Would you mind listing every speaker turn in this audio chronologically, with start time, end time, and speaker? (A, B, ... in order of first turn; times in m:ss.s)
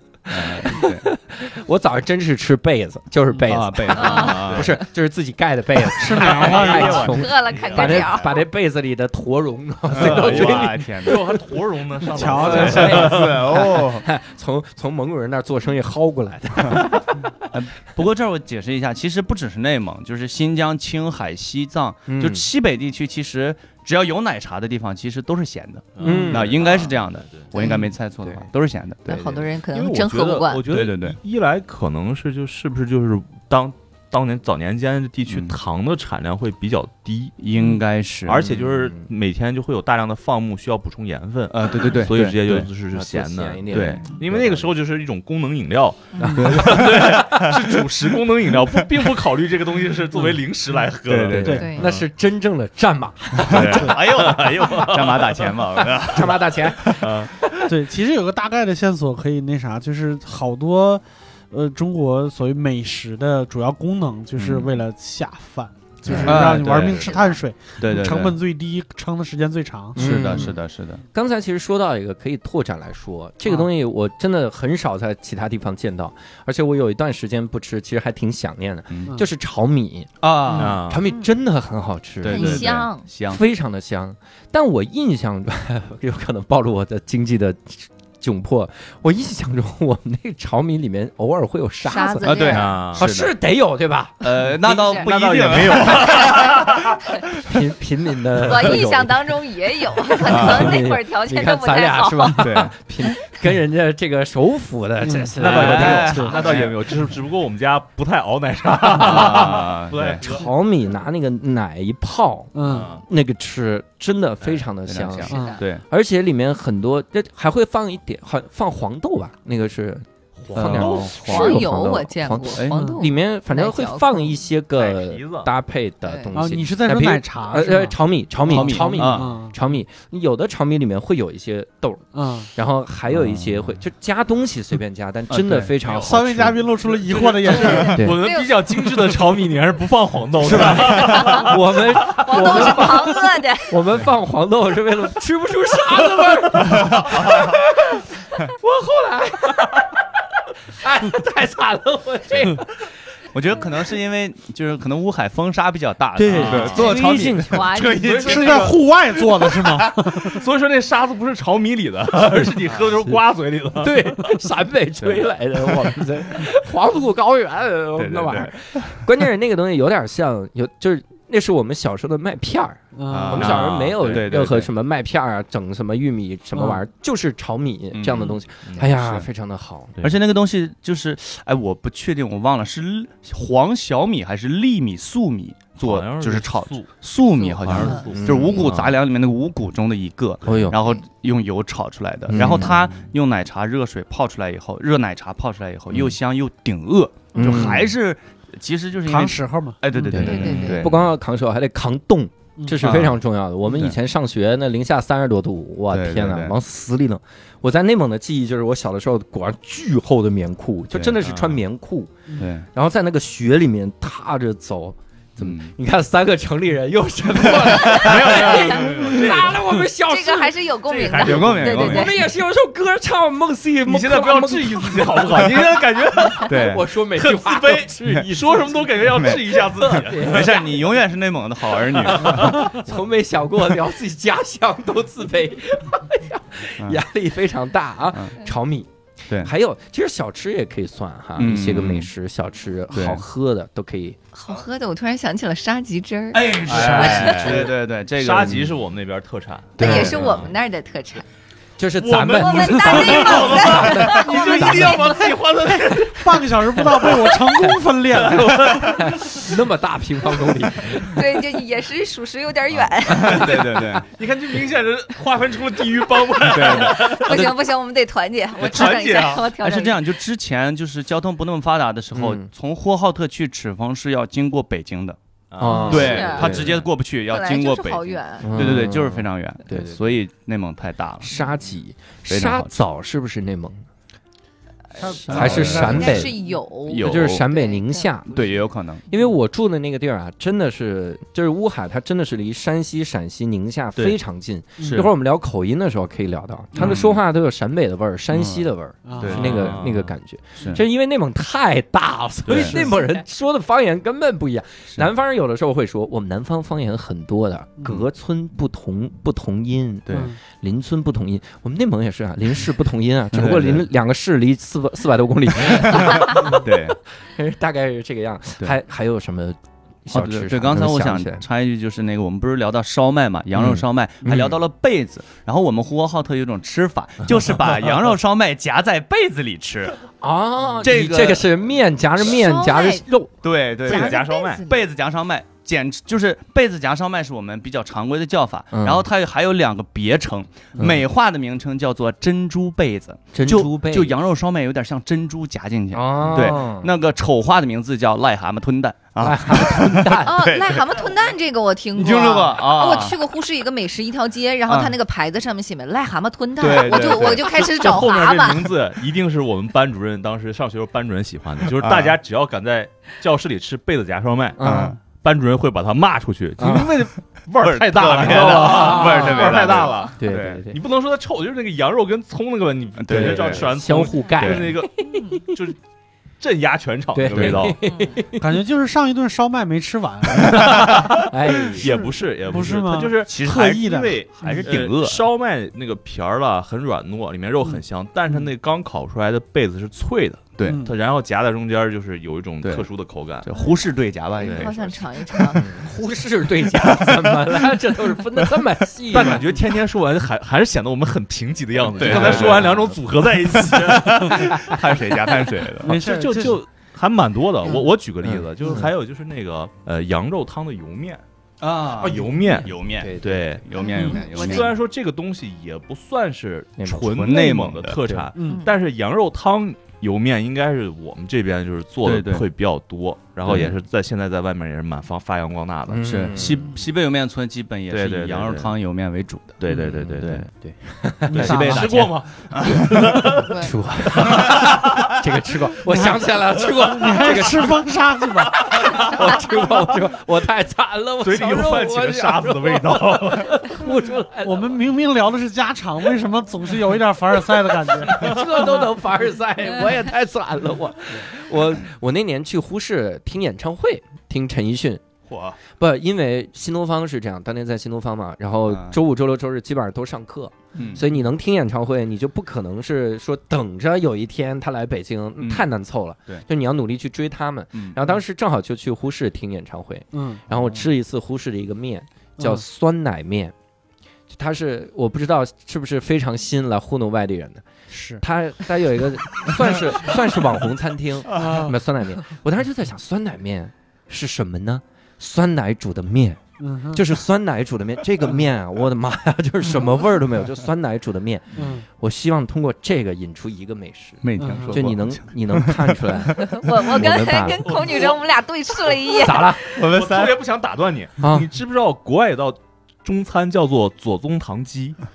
0:00.3-0:01.0 A
0:00.3-0:11.4 B
0:03.3-0:04.7 A
0:04.0-0:04.4 C
0:04.4-0:04.7 D
0:05.9-0:07.2 E
0:06.2-0:08.1 D
0:06.5-0:08.4 C
0:06.6-0:07.1 A
0:09.9-0:11.3 A
0:09.9-0:13.6 D
0:12.1-0:13.1 E
0:12.2-0:17.3 B
0:12.3-0:14.0 A
0:17.5-0:29.5 A
0:22.1-0:22.5 B
0:26.0-0:27.5 D
0:26.0-0:26.6 B
0:27.5-0:27.9 C
0:29.0-0:30.6 C
0:29.7-0:37.4 D
0:30.6-0:31.2 A
0:35.3-0:35.6 A
0:37.4-0:38.4 A
0:38.2-0:52.0 D
0:38.3-0:39.1 B
0:41.5-0:42.7 A
0:42.9-0:44.7 B
0:43.7-0:44.1 A
0:46.2-0:47.9 B
0:46.4-0:47.6 A
0:51.0-0:51.6 A
0:51.3-0:54.0 B
0:51.5-0:51.9 C
0:53.4-0:55.5 D
0:53.4-0:57.1 A
0:55.8-0:57.7 B
0:57.0-0:57.3 D
0:57.6-1:10.5 E
1:04.3-1:04.7 A
1:06.0-1:06.5 B
1:06.1-1:07.1 D
1:06.2-1:07.2 A
1:06.9-1:07.4 C
1:07.8-1:08.4 A
1:09.9-1:10.6 B
1:10.0-1:11.0 A
1:11.1-1:20.1 B
1:18.9-1:19.1 A
1:20.2-1:20.8 A
1:20.6-1:21.0 D
1:20.6-1:34.3 B
1:21.0-1:21.3 C
1:22.2-1:23.4 A
1:22.3-1:23.0 C
1:31.8-1:32.7 C
1:32.2-1:33.3 A
1:32.5-1:33.0 D
1:34.2-1:36.6 A
1:35.0-1:37.0 D
1:35.1-1:36.7 B
1:36.0-1:36.6 C
1:37.4-1:39.2 B
1:38.4-1:42.4 C
1:40.2-1:46.6 B
1:40.3-1:40.7 A
1:42.4-1:42.7 A
1:45.0-1:46.4 E
1:45.4-1:50.4 D
1:45.5-1:46.8 A
1:49.0-1:50.2 A
1:49.1-1:49.5 B
1:50.2-2:16.6 B
1:52.6-1:52.9 E
1:52.6-1:53.0 D
1:54.9-1:55.8 A
1:55.3-1:55.6 C
1:55.3-1:55.6 E
2:00.4-2:01.2 D
2:00.5-2:01.7 A
2:01.2-2:04.4 C
2:02.5-2:02.9 A
2:04.8-2:05.5 D
2:06.0-2:06.3 C
2:06.3-2:09.5 E
2:08.5-2:09.3 A
2:12.1-2:12.5 E
2:13.1-2:13.7 A
2:15.3-2:15.7 A
2:15.8-2:16.1 D
2:15.9-2:18.0 E
2:16.8-2:22.2 D
2:17.5-2:18.6 C
2:17.6-2:18.2 B
2:20.4-2:30.0 B
2:20.6-2:21.2 A
2:21.0-2:21.5 C
2:22.1-2:23.8 C
2:30.8-2:32.9 B
2:33.3-2:37.7 A
2:36.2-2:38.7 B
2:36.3-2:36.9 D
2:37.5-2:38.7 C
2:37.7-2:44.1 D
2:38.1-2:40.4 E
2:42.7-2:42.9 A
2:43.8-3:00.0 B
2:48.0-2:49.0 A
2:53.0-2:53.5 E
2:53.1-2:54.7 A
2:53.3-2:54.3 D
2:56.5-2:56.8 E
2:57.9-2:58.3 A
2:58.6-2:58.9 D
2:58.9-2:59.2 A
3:00.0-3:21.0 A
3:05.8-3:08.9 D
3:08.0-3:08.7 B
3:10.4-3:10.8 B
3:12.3-3:12.8 B
3:12.4-3:12.7 D
3:17.3-3:17.9 B
3:19.0-3:20.1 E
3:20.1-3:32.1 B
3:20.1-3:20.7 D
3:20.2-3:20.8 C
3:22.6-3:22.9 E
3:22.8-3:23.2 A
3:25.9-3:26.6 A
3:30.9-3:31.3 A
3:31.2-3:31.5 D
3:32.4-3:32.7 A
3:32.7-3:40.6 B
3:35.4-3:35.7 A
3:37.8-3:39.8 D
3:40.0-3:42.1 C
3:40.9-3:42.1 D
3:41.1-3:42.1 A
3:41.7-3:45.8 B
3:43.8-3:46.6 D
3:46.3-3:48.8 B
3:46.4-3:46.8 A
3:47.1-3:50.7 D
3:49.1-3:52.7 A
3:49.8-3:50.6 B
3:52.1-3:52.6 D
3:52.1-3:58.9 B
3:59.4-4:04.2 B
4:01.4-4:02.1 A
4:02.9-4:03.2 A
4:04.3-4:07.5 C
4:06.3-4:08.8 A
4:06.4-4:10.5 D
4:09.8-4:10.2 B
4:09.8-4:11.2 C
4:09.8-4:10.4 A
4:11.8-4:15.3 B
4:12.0-4:16.4 D
4:12.3-4:15.2 C
4:14.6-4:15.3 E
4:15.8-4:19.0 E
4:15.9-4:17.2 B
4:18.2-4:21.2 B
4:18.2-4:19.1 D
4:21.0-4:23.6 C
4:23.1-4:24.1 A
4:23.4-4:24.0 B
4:24.0-4:27.5 D
4:26.4-4:27.6 A
4:26.7-4:30.0 C
4:28.6-4:29.5 D
4:29.6-4:35.2 A
4:32.1-4:32.5 B
4:35.5-4:36.8 D
4:35.6-4:36.7 B
4:35.7-4:36.6 C
4:35.9-4:41.3 A
4:37.3-4:38.5 C
4:38.4-4:40.0 B
4:41.2-4:43.8 B
4:42.3-4:42.7 A
4:45.0-4:46.2 E
4:45.1-4:46.2 A
4:45.2-4:48.6 C
4:45.3-4:46.4 B
4:45.3-4:46.0 D
4:46.8-4:47.4 A
4:46.9-4:48.4 B
4:48.3-4:49.0 A
4:49.1-5:21.4 B
4:54.8-4:55.1 A
4:56.8-4:57.2 A
4:58.3-5:00.0 A
4:59.0-4:59.4 E
4:59.2-5:00.1 D
5:00.6-5:00.8 A
5:02.5-5:02.8 A
5:02.6-5:03.0 E
5:10.1-5:10.3 A
5:10.1-5:10.4 E
5:13.3-5:13.8 A
5:15.8-5:17.0 A
5:20.1-5:30.0 A
5:23.6-5:24.6 B
5:30.2-5:33.3 B
5:30.8-5:31.5 A
5:32.2-5:33.1 C
5:33.4-5:51.0 A
5:33.8-5:34.6 D
5:33.8-5:34.8 C
5:38.7-5:39.1 B
5:43.3-5:44.2 B
5:45.9-5:46.9 B
5:49.2-5:50.4 B
5:50.2-5:58.7 C
5:51.9-5:53.2 A
5:54.7-5:54.9 A
5:56.6-5:57.4 A
5:56.6-6:15.8 D
6:01.8-6:02.2 A
6:04.6-6:05.0 B
6:04.6-6:05.0 A
6:06.6-6:07.1 B
6:07.6-6:10.6 A
6:08.2-6:10.8 B
6:13.0-6:13.7 A
6:13.1-6:15.6 B
6:14.4-6:14.7 A
6:16.4-6:17.8 D
6:17.1-6:18.6 B
6:17.3-6:17.7 A
6:17.8-6:18.2 C
6:18.4-6:21.2 E
6:20.5-6:33.5 D
6:20.6-6:22.0 B
6:21.8-6:24.7 E
6:23.2-6:25.2 A
6:30.6-6:30.8 A
6:30.6-6:30.9 E
6:32.6-6:32.9 A
6:33.4-6:35.6 A
6:34.4-6:35.6 C
6:34.4-6:34.7 D
6:35.5-6:39.6 B
6:36.9-6:37.4 A
6:39.1-6:44.9 D
6:41.9-6:42.7 A
6:42.0-6:43.0 B
6:43.6-6:46.0 A
6:45.8-6:51.2 D
6:45.8-6:46.6 E
6:48.2-6:48.9 B
6:51.6-6:54.8 A
6:52.0-7:06.1 D
6:52.1-6:53.5 B
6:53.8-6:54.7 C
6:56.8-6:57.1 B
6:57.0-6:58.0 A
6:58.0-6:58.3 B
6:58.4-6:58.6 E
6:58.4-6:58.7 C
7:02.0-7:02.5 A
7:03.4-7:03.8 A
7:05.9-7:06.7 B
7:06.0-7:10.5 A
7:07.9-7:08.7 D
7:09.6-7:10.5 D
7:09.7-7:11.9 B
7:11.3-7:11.9 E
7:11.3-7:13.2 A
7:11.3-7:13.5 D
7:12.6-7:24.8 B
7:13.4-7:13.7 C
7:14.2-7:15.1 D
7:15.8-7:19.1 E
7:18.9-7:19.2 D
7:21.2-7:23.8 D
7:24.4-7:28.3 E
7:27.6-7:35.0 B
7:35.3-7:35.6 A
7:35.7-7:53.5 B
7:38.7-7:39.0 A
7:40.7-7:41.0 A
7:45.4-7:45.6 A
7:47.7-7:48.0 A
7:50.1-7:50.4 E
7:52.4-7:52.6 E
7:54.3-7:57.6 B
7:57.9-7:58.2 E
7:58.2-8:17.8 B
8:01.4-8:01.7 E
8:06.6-8:07.0 E
8:11.6-8:11.8 E
8:14.2-8:16.5 A
8:14.4-8:14.8 E
8:16.4-8:19.8 C
8:17.6-8:18.2 D
8:19.2-8:19.6 B
8:19.7-8:20.4 A
8:19.8-8:25.0 D
8:21.2-8:21.5 B